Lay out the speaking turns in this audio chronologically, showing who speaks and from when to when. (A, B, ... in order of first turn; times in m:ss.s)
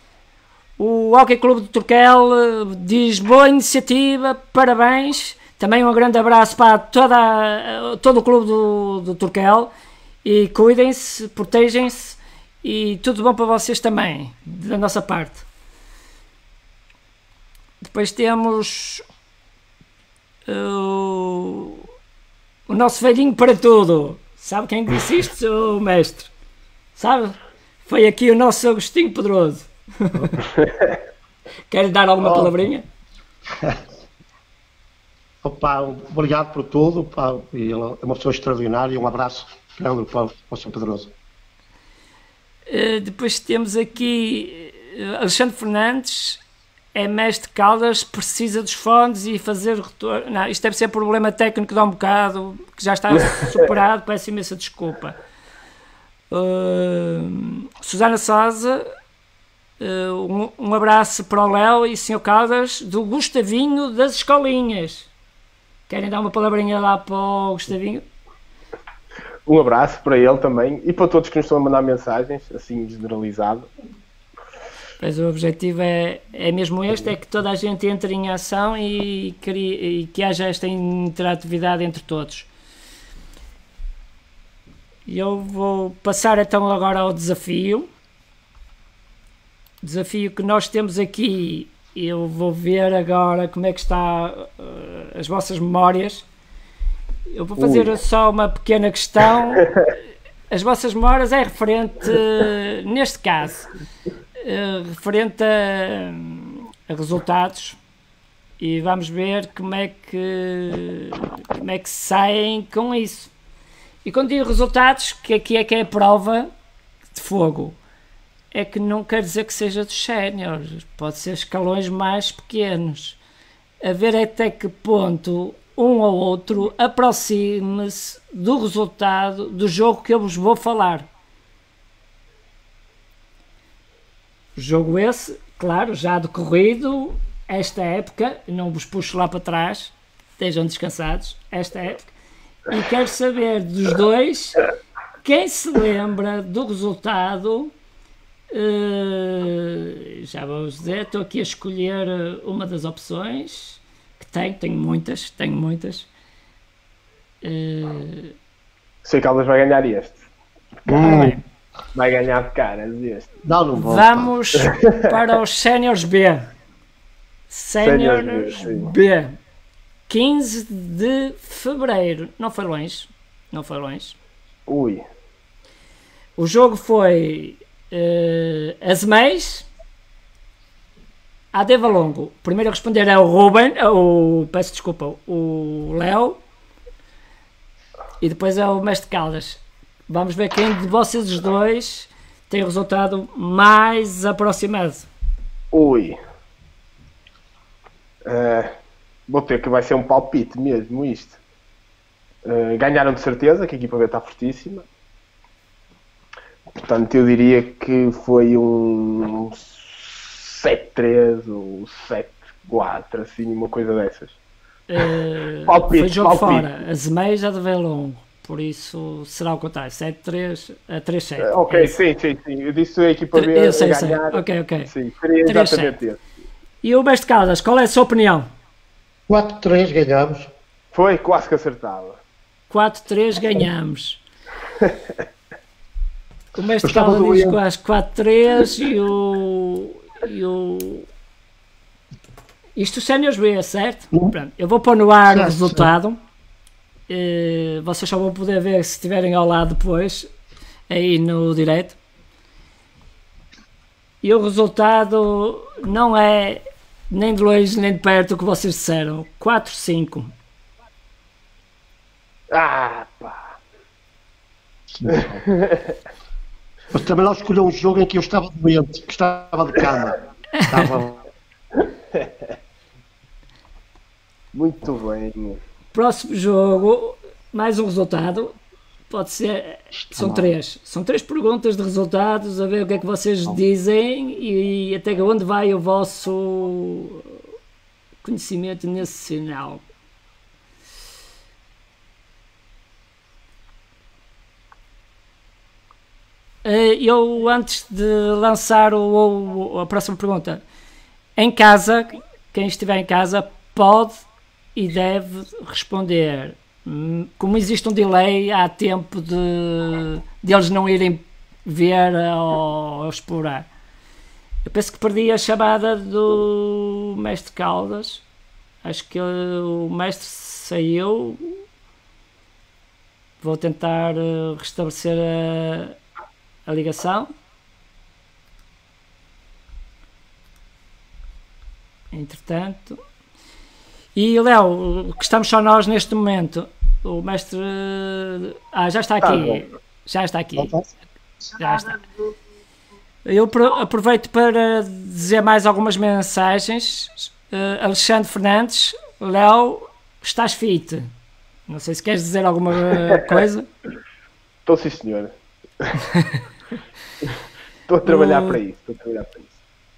0:00.8-0:09.7 A
0:10.2-0:15.4 A
0:17.8-0:19.0 A
0:20.5-0:21.8 A
0:22.7-0:26.3 A
0:27.0-0:30.4 A
0:30.5-0:31.0 B
0:31.7-0:32.8 A
0:32.2-0:32.6 C
0:35.4-0:41.1 C
0:42.7-0:46.4 A
0:46.9-0:55.2 A
0:53.1-0:53.6 B
0:56.3-0:58.9 A
0:59.8-1:05.1 A
1:05.9-1:08.0 A
1:09.5-1:13.7 B
1:15.0-1:22.5 A
1:25.1-1:27.9 A
1:29.8-1:36.3 A
1:37.3-1:39.7 A
1:37.6-1:37.9 B
1:40.5-1:43.7 A
1:44.4-1:47.8 A
1:48.6-1:53.3 A
1:54.0-1:56.5 A
1:57.1-1:57.8 A
1:58.5-2:03.2 A
2:03.8-2:11.1 A
2:14.6-2:22.1 A
2:22.7-2:24.6 A
2:25.2-2:27.7 A
2:28.5-2:36.1 A
2:37.4-2:38.3 A
2:39.0-2:40.2 B
2:40.9-2:41.4 C
2:40.9-2:41.4 A
2:41.9-2:43.3 B
2:43.4-2:44.3 C
2:43.8-2:46.5 A
2:44.6-2:45.1 B
2:47.5-2:49.4 A
2:47.8-2:48.9 B
2:50.1-2:54.2 A
2:54.7-2:55.0 B
2:56.4-2:59.7 A
3:01.5-3:06.4 A
3:08.2-3:15.1 A
3:15.7-3:16.2 B
3:18.2-3:18.7 B
3:19.3-3:21.4 B
3:22.4-3:24.8 B
3:26.7-3:34.4 B
3:34.9-3:42.0 A
3:35.6-3:36.7 B
3:41.4-3:46.2 B
3:43.3-3:44.9 A
3:45.4-3:46.0 A
3:46.8-3:48.5 A
3:49.3-3:50.5 C
3:50.9-3:52.2 B
3:52.7-3:54.2 A
3:56.5-4:01.1 A
3:56.8-3:57.6 C
4:02.8-4:06.2 A
4:05.3-4:05.9 C
4:07.1-4:10.3 A
4:10.9-4:12.0 A
4:14.2-4:20.3 A
4:22.5-4:23.5 B
4:24.9-4:25.4 C
4:25.3-4:25.9 B
4:26.9-4:31.2 C
4:32.1-4:32.5 B
4:34.5-4:35.6 B
4:35.9-4:38.5 A
4:39.1-4:47.4 A
4:39.9-4:40.5 C
4:48.2-4:49.8 A
4:56.6-5:00.6 A
5:01.4-5:04.2 A
5:04.7-5:13.7 A
5:14.6-5:18.2 A
5:18.8-5:21.6 A
5:23.4-5:26.0 A
5:26.6-5:27.3 A
5:32.1-5:33.0 A
5:34.1-5:40.7 A
5:39.2-5:39.6 B
5:40.6-5:40.9 C
5:41.5-5:42.0 A
5:43.2-5:51.1 A
5:51.7-5:53.6 A
5:54.6-5:55.9 B
5:56.1-5:56.4 A
5:57.9-5:59.5 B
5:58.0-5:58.6 A